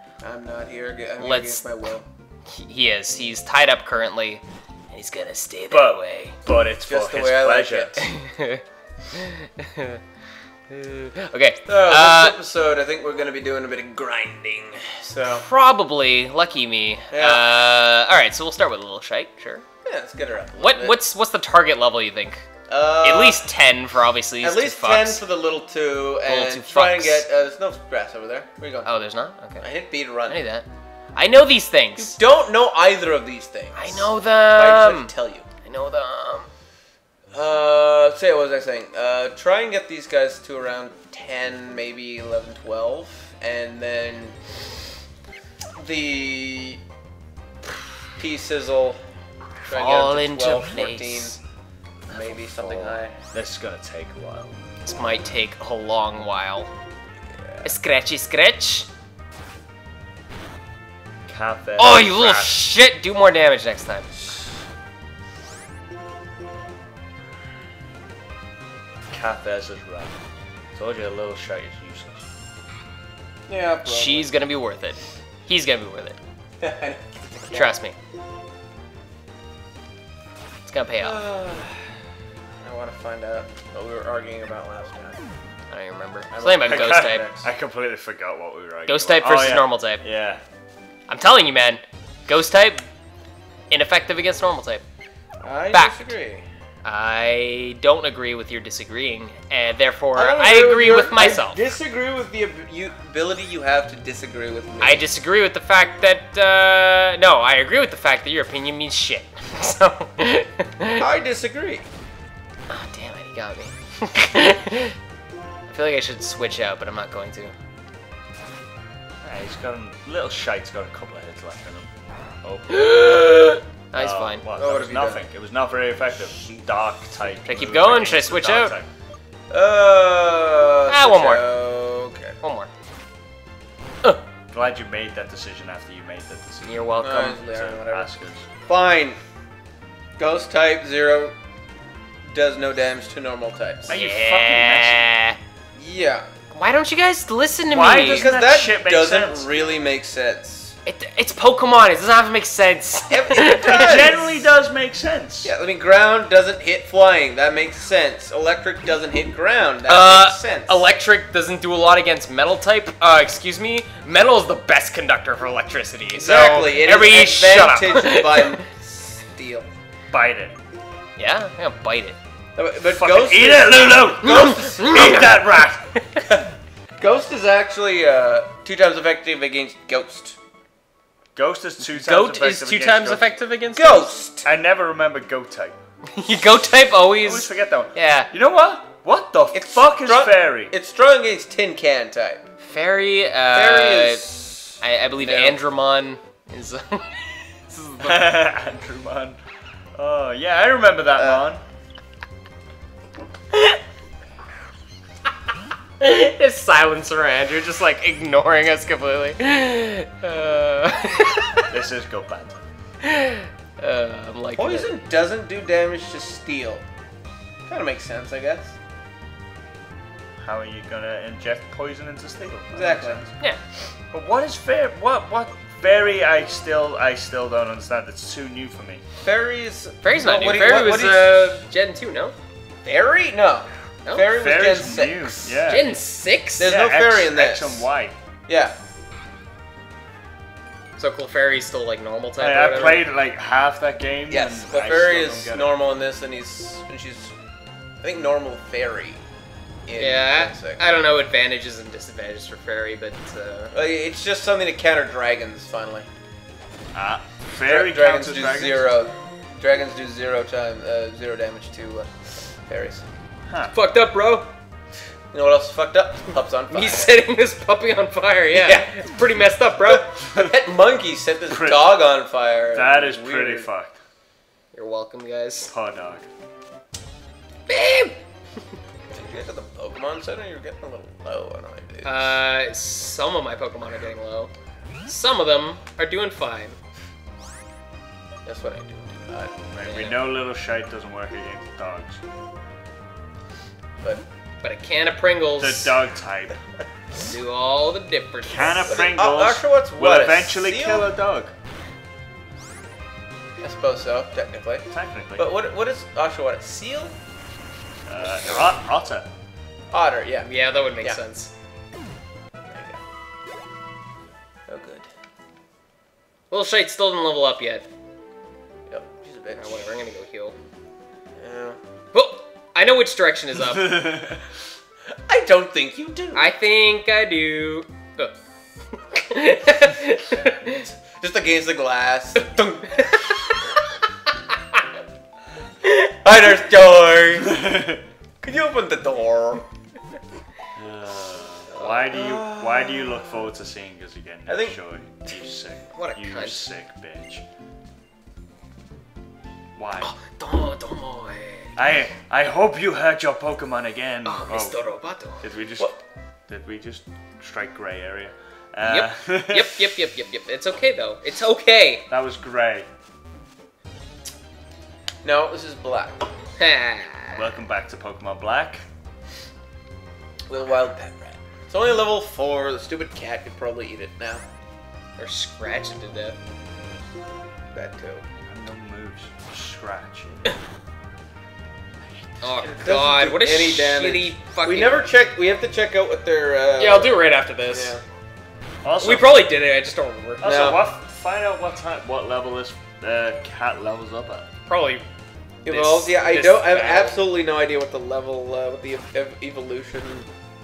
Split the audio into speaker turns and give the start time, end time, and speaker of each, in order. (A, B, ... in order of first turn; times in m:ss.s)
0:00.2-0:02.0 A
0:01.2-0:01.7 B
0:02.5-0:06.4 B
0:05.7-0:08.0 C
0:06.9-0:08.0 A
0:08.0-0:10.0 B
0:10.7-0:12.4 B
0:11.7-0:15.5 A
0:15.2-0:19.6 B
0:17.1-0:17.5 A
0:19.8-0:21.0 A
0:20.6-0:22.5 B
0:22.7-0:23.5 A
0:23.0-0:25.2 B
0:24.4-0:28.9 A
0:26.2-0:27.2 B
0:28.8-0:29.6 B
0:29.6-0:30.4 A
0:30.3-0:32.2 B
0:32.0-0:35.4 A
0:33.8-0:35.1 B
0:35.6-0:36.5 B
0:37.3-0:44.3 A
0:45.8-0:46.8 A
0:48.2-0:49.0 A
0:49.6-0:51.4 A
0:49.7-0:51.4 B
0:52.1-0:53.2 A
0:52.3-0:54.5 C
0:54.8-0:56.7 B
0:57.6-0:58.9 B
1:01.3-1:02.6 C
1:01.8-1:04.1 B
1:09.1-1:10.2 C
1:10.7-1:12.2 C
1:13.5-1:14.3 A
1:13.8-1:16.2 B
1:16.6-1:17.8 A
1:17.5-1:18.0 B
1:20.7-1:21.2 B
1:21.0-1:21.9 A
1:22.6-1:25.2 A
1:25.7-1:27.3 B
1:26.3-1:27.4 A
1:26.6-1:30.4 C
1:28.9-1:30.0 B
1:31.1-1:32.9 B
1:33.7-1:34.8 B
1:35.4-1:36.4 A
1:35.7-1:36.1 B
1:36.8-1:41.6 B
1:40.2-1:45.1 A
1:44.8-1:51.1 B
1:51.0-1:51.9 A
1:52.7-1:55.0 B
1:55.7-1:57.5 B
1:59.2-2:01.9 C
2:02.4-2:03.2 C
2:02.7-2:04.4 B
2:03.9-2:08.9 C
2:04.6-2:05.2 A
2:07.5-2:08.7 B
2:09.5-2:12.4 A
2:10.9-2:11.4 B
2:12.4-2:12.7 B
2:14.5-2:18.5 C
2:16.7-2:17.4 B
2:17.0-2:18.1 A
2:18.7-2:19.2 A
2:20.2-2:21.3 A
2:22.3-2:23.9 A
2:23.9-2:25.1 C
2:23.9-2:25.4 B
2:25.8-2:26.2 A
2:26.5-2:28.3 B
2:27.7-2:29.5 C
2:28.0-2:30.8 A
2:30.8-2:34.1 B
2:33.1-2:34.3 A
2:33.6-2:35.5 C
2:35.4-2:40.8 A
2:39.9-2:48.6 B
2:46.2-2:49.7 A
2:50.1-2:50.6 C
2:51.2-2:52.2 B
2:52.6-2:55.4 A
2:52.9-2:55.9 C
2:54.2-2:56.3 B
2:57.0-3:00.4 A
3:01.4-3:03.3 C
3:01.8-3:04.1 B
3:03.8-3:04.5 A
3:04.4-3:05.8 C
3:06.1-3:08.3 B
3:07.2-3:10.7 C
3:09.5-3:12.5 A
3:12.6-3:14.2 B
3:13.5-3:15.6 A
3:14.8-3:17.1 B
3:17.7-3:18.2 B
3:18.0-3:19.4 C
3:19.9-3:21.6 C
3:21.2-3:21.4 A
3:26.0-3:31.7 B
3:31.7-3:32.6 C
3:33.0-3:34.9 B
3:34.6-3:36.8 A
3:37.7-3:38.8 A
3:40.4-3:43.3 C
3:42.7-3:43.2 A
3:44.1-3:49.0 C
3:49.2-3:51.6 A
3:50.0-3:52.3 B
3:52.8-3:55.5 A
3:54.3-3:55.9 C
3:55.7-3:56.7 B
3:56.6-3:57.8 A
3:56.6-3:58.2 C
3:58.5-3:58.8 A
4:01.0-4:03.0 B
4:02.4-4:05.7 C
4:04.3-4:07.3 A
4:08.0-4:09.2 A
4:09.9-4:10.8 A
4:10.0-4:13.8 B
4:13.7-4:16.1 A
4:16.9-4:18.9 C
4:17.6-4:23.0 A
4:23.5-4:23.7 C
4:23.7-4:24.5 B
4:25.3-4:27.2 A
4:26.7-4:30.1 B
4:28.5-4:28.8 A
4:30.0-4:33.7 A
4:31.5-4:32.0 C
4:32.7-4:34.0 C
4:34.7-4:35.7 B
4:35.7-4:36.3 C
4:37.7-4:38.2 B
4:39.1-4:42.2 A
4:42.0-4:44.5 B
4:45.0-4:46.8 B
4:48.4-4:49.5 A
4:49.7-4:52.2 C
4:49.8-4:50.2 B
4:54.6-4:55.9 B
4:55.6-4:56.6 C
4:57.1-4:58.9 B
4:58.4-5:01.5 C
4:58.7-5:01.1 A
5:03.6-5:07.2 A
5:04.9-5:05.5 C
5:08.1-5:09.3 C
5:09.9-5:10.5 A
5:10.4-5:11.5 B
5:12.7-5:13.0 A
5:14.7-5:15.1 A
5:16.5-5:17.8 B
5:18.9-5:19.9 A
5:19.5-5:20.5 B
5:21.4-5:21.8 A
5:22.1-5:24.3 B
5:23.8-5:24.3 C
5:25.3-5:26.5 A
5:26.3-5:28.3 B
5:28.9-5:30.8 B
5:31.2-5:32.5 A
5:32.4-5:33.5 B
5:36.0-5:37.7 A
5:37.4-5:38.0 C
5:38.4-5:39.6 A
5:40.7-5:47.4 C
5:42.1-5:43.2 A
5:44.5-5:44.8 A
5:45.9-5:46.7 B
5:49.7-5:50.1 C
5:50.0-5:51.7 B
5:51.8-5:54.8 C
5:54.2-5:55.4 B
5:55.4-5:55.9 C
5:56.5-5:59.9 C
5:58.8-6:02.0 B
6:02.1-6:02.9 C
6:05.2-6:06.3 A
6:06.6-6:07.4 B
6:07.3-6:08.8 C
6:10.5-6:14.4 A
6:15.2-6:16.4 B
6:17.7-6:18.2 A
6:18.4-6:20.6 C
6:22.1-6:22.4 C
6:22.4-6:25.0 B
6:22.7-6:27.2 A
6:26.8-6:27.9 B
6:27.7-6:28.0 A
6:28.8-6:29.4 C
6:29.0-6:30.5 B
6:30.4-6:34.5 C
6:30.4-6:30.8 A
6:34.7-6:35.0 B
6:35.6-6:37.2 B
6:35.6-6:40.3 A